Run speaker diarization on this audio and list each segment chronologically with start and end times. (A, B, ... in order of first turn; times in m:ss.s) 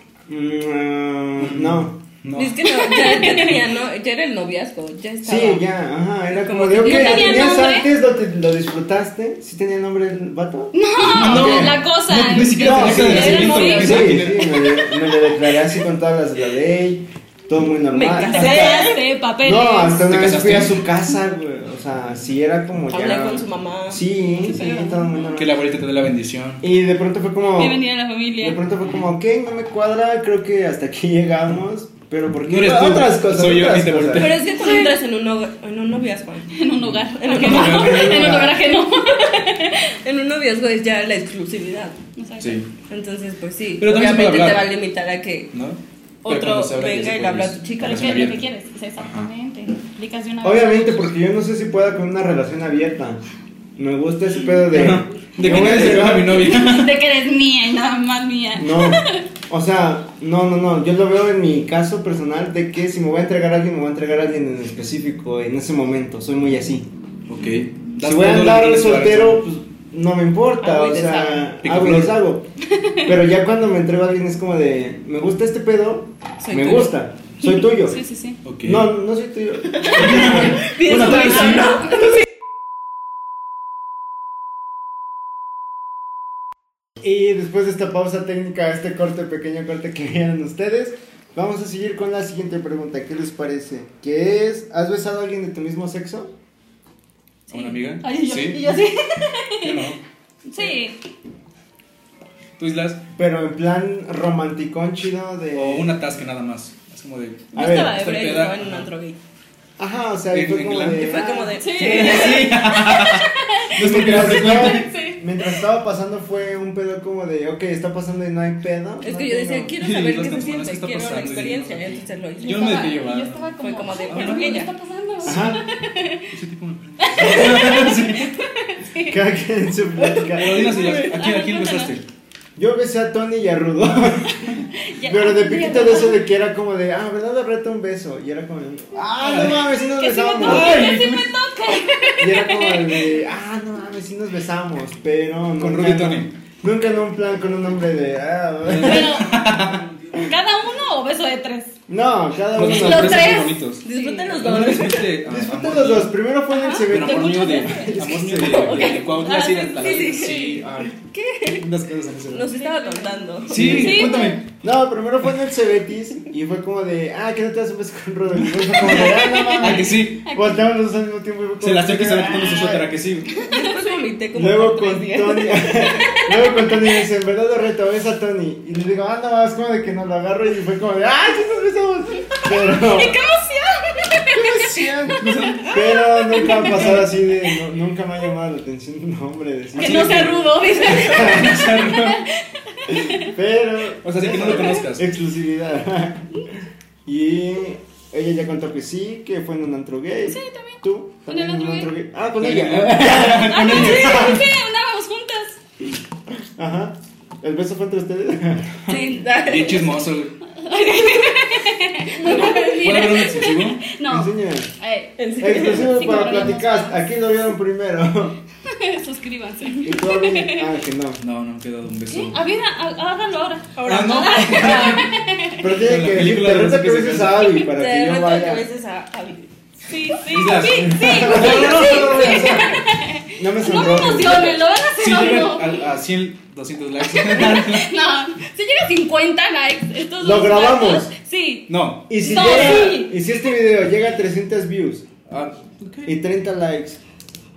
0:00.3-0:02.0 A
0:01.4-0:02.6 B
0:02.3-0:05.6 C
0:02.6-0:03.6 D
0:05.2-0:11.8 A
0:06.3-0:07.7 C
0:06.8-0:07.9 D
0:10.7-0:14.0 D
0:11.0-0:14.7 B
0:12.6-0:18.9 A
0:12.7-0:14.2 C
0:17.9-0:19.0 C
0:18.2-0:20.0 D
0:19.4-0:25.6 A
0:20.0-0:20.8 B
0:22.9-0:24.8 C
0:24.4-0:25.3 D
0:25.3-0:26.6 B
0:26.6-0:27.8 A
0:27.6-0:28.6 D
0:28.4-0:34.3 A
0:32.4-0:34.5 B
0:34.1-0:36.5 C
0:34.5-0:35.0 D
0:36.5-0:39.9 D
0:36.8-0:38.3 B
0:37.2-0:38.2 C
0:37.6-0:38.6 A
0:40.0-0:42.0 C
0:42.2-0:42.6 D
0:42.4-0:42.7 B
0:42.8-0:45.5 C
0:43.8-0:44.7 B
0:45.5-0:48.4 B
0:46.2-0:48.3 C
0:47.8-0:51.0 D
0:49.0-0:49.3 B
0:50.4-0:53.2 A
0:53.8-0:56.5 A
0:54.7-0:57.0 B
0:55.5-0:59.2 D
0:58.6-1:06.9 A
1:07.3-1:09.4 B
1:08.0-1:12.4 A
1:10.6-1:11.5 C
1:11.6-1:12.2 B
1:13.0-1:18.0 A
1:16.4-1:16.9 C
1:17.8-1:18.4 D
1:18.4-1:18.9 B
1:18.6-1:20.7 A
1:19.9-1:21.8 B
1:19.9-1:22.2 C
1:27.0-1:36.3 A
1:37.5-1:38.7 B
1:37.5-1:39.8 D
1:39.6-1:40.0 B
1:40.4-1:41.0 D
1:42.6-1:43.0 B
1:43.2-1:45.9 A
1:45.5-1:48.9 B
1:47.5-1:49.2 C
1:47.5-1:48.0 A
1:49.8-1:51.6 A
1:50.3-1:51.1 B
1:50.9-1:52.6 C
1:51.6-1:55.5 D
1:51.7-1:54.9 B
1:53.8-1:59.7 A
1:59.0-2:03.1 C
1:59.8-2:03.5 B
2:02.4-2:06.3 D
2:03.6-2:04.7 C
2:04.1-2:04.6 B
2:05.2-2:05.5 B
2:05.2-2:05.6 A
2:06.3-2:08.3 B
2:07.0-2:09.2 D
2:07.2-2:07.6 A
2:09.1-2:10.7 A
2:10.0-2:11.1 C
2:10.3-2:12.0 B
2:10.7-2:11.9 D
2:12.6-2:20.8 A
2:14.5-2:16.2 D
2:19.2-2:19.7 B
2:19.8-2:23.1 D
2:20.4-2:21.3 B
2:22.2-2:29.2 A
2:25.6-2:26.3 B
2:28.6-2:29.9 B
2:28.8-2:29.4 D
2:30.2-2:31.8 D
2:31.9-2:33.4 A
2:32.5-2:36.2 B
2:32.6-2:34.4 D
2:33.8-2:35.1 C
2:35.2-2:38.8 A
2:36.5-2:38.0 D
2:36.8-2:41.0 B
2:38.4-2:41.7 C
2:38.7-2:40.3 D
2:41.5-2:42.5 B
2:42.3-2:44.2 C
2:42.5-2:44.4 D
2:43.5-2:44.4 B
2:43.6-2:43.9 A
2:44.6-2:52.9 A
2:48.4-2:50.2 B
2:48.9-2:50.6 D
2:51.6-2:53.4 B
2:53.3-2:53.9 D
2:53.4-2:56.0 C
2:54.3-3:03.2 A
2:56.0-2:56.4 D
3:02.6-3:04.9 D
3:04.3-3:11.6 A
3:05.2-3:05.7 B
3:05.4-3:06.9 D
3:06.4-3:07.1 B
3:09.8-3:13.3 D
3:09.8-3:12.2 B
3:10.7-3:11.5 C
3:13.0-3:16.3 A
3:14.0-3:15.1 B
3:17.0-3:24.4 A
3:20.3-3:21.9 D
3:22.4-3:24.4 B
3:23.2-3:25.6 D
3:26.6-3:28.8 A
3:28.9-3:29.3 D
3:28.9-3:29.9 C
3:28.9-3:30.4 B
3:30.5-3:37.0 D
3:32.2-3:33.2 C
3:32.8-3:33.8 B
3:34.1-3:34.7 A
3:35.2-3:36.0 C
3:35.4-3:38.4 A
3:38.6-3:40.7 D
3:39.8-3:41.2 A
3:41.2-3:42.4 B
3:42.1-3:45.6 D
3:43.8-3:45.0 C
3:43.8-3:45.1 B
3:45.6-3:48.6 A
3:45.6-3:47.6 B
3:47.7-3:49.5 C
3:49.9-3:55.8 D
3:50.3-3:52.7 B
3:50.7-3:52.8 A
3:53.4-3:54.5 A
3:55.0-3:57.9 B
3:57.0-4:03.2 D
4:00.2-4:01.1 A
4:01.7-4:02.8 B
4:02.1-4:05.1 A
4:05.3-4:06.1 B
4:06.0-4:07.0 A